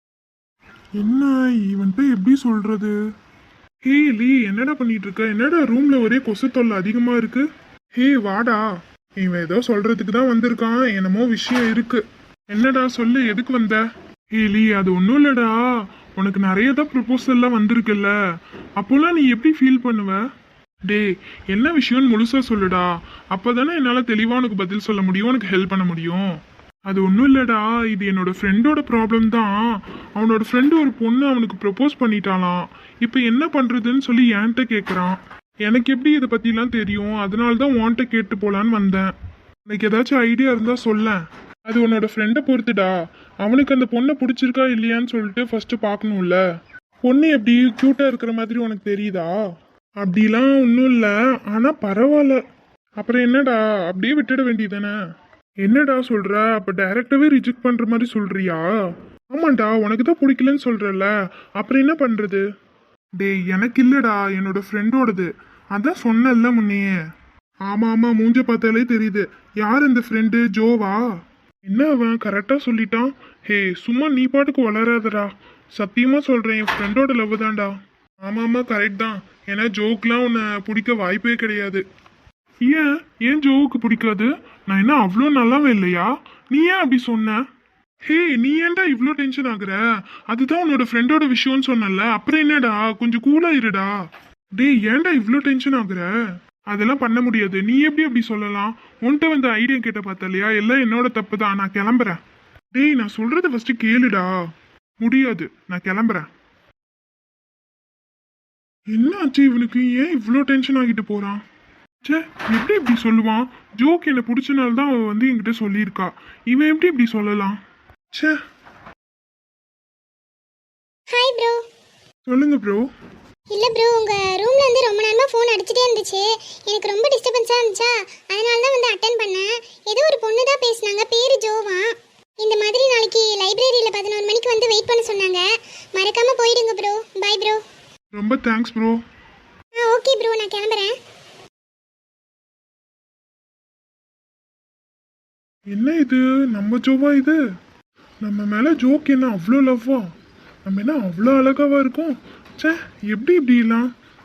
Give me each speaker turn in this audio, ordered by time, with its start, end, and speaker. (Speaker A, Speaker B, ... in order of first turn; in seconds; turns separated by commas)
Speaker A: 1.0-3.0, Speaker A: 3.8-8.6, Speaker A: 9.2-13.8, Speaker A: 14.3-15.6, Speaker A: 16.1-18.1, Speaker A: 18.8-20.2, Speaker A: 20.9-26.3, Speaker A: 26.9-29.6, Speaker A: 30.2-39.1, Speaker A: 39.7-46.4, Speaker A: 47.0-49.4, Speaker A: 50.0-52.4, Speaker A: 53.0-54.9, Speaker A: 55.6-58.7, Speaker A: 59.3-62.5, Speaker A: 63.2-67.0, Speaker A: 67.7-71.0, Speaker A: 71.7-77.7, Speaker A: 78.3-81.8, Speaker A: 82.7-87.4, Speaker A: 88.1-93.9, Speaker A: 94.6-96.1, Speaker A: 96.7-102.2, Speaker A: 102.8-104.3, Speaker A: 105.0-106.3, Speaker A: 108.9-111.4, Speaker A: 112.0-117.6, Speaker B: 121.1-121.6, Speaker A: 122.3-122.9, Speaker B: 123.5-137.6, Speaker A: 138.1-139.0, Speaker B: 139.8-140.9, Speaker A: 145.7-147.4, Speaker A: 148.2-150.1, Speaker A: 150.7-153.9